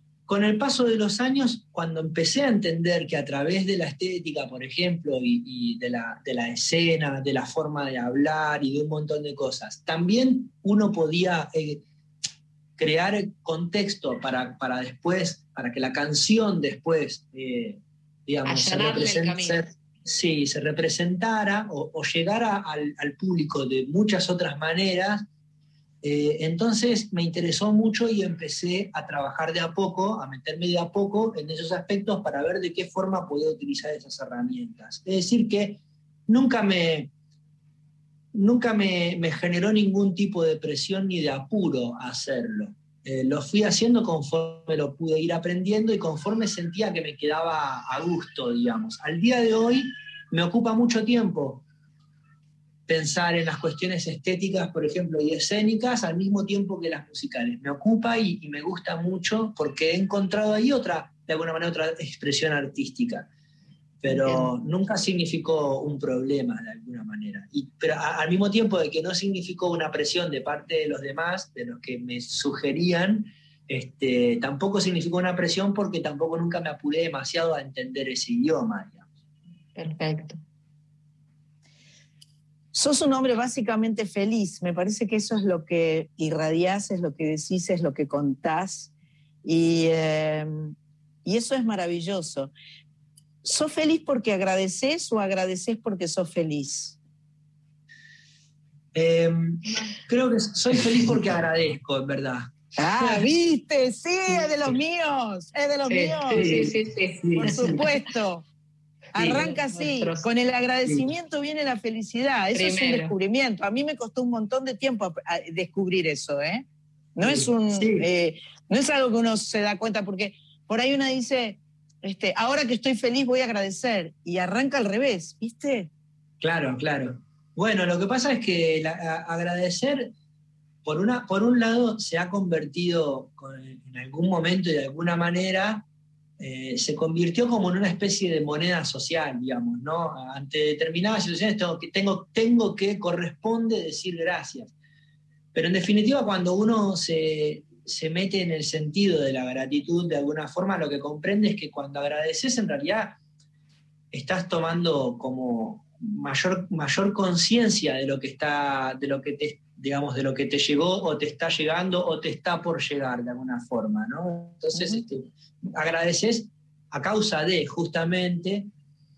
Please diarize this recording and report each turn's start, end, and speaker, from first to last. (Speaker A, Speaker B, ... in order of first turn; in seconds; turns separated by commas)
Speaker A: 0.3-11.8, Speaker A: 12.8-25.3, Speaker B: 18.4-19.7, Speaker A: 26.0-37.1, Speaker A: 38.3-51.6, Speaker A: 52.9-63.3, Speaker A: 64.0-79.1, Speaker B: 64.1-64.5, Speaker B: 79.8-80.4, Speaker C: 82.7-88.9, Speaker C: 89.5-90.7, Speaker C: 91.2-92.5, Speaker C: 93.4-97.0, Speaker A: 99.0-103.2, Speaker C: 102.8-106.6, Speaker B: 105.9-108.0, Speaker A: 106.3-107.8, Speaker C: 107.4-108.5, Speaker C: 109.1-125.9, Speaker B: 109.2-110.3, Speaker A: 110.8-111.1, Speaker B: 112.5-113.1, Speaker A: 117.2-118.1, Speaker A: 126.4-130.1, Speaker A: 130.8-135.9, Speaker A: 136.4-144.7, Speaker A: 145.5-153.2, Speaker A: 154.1-168.7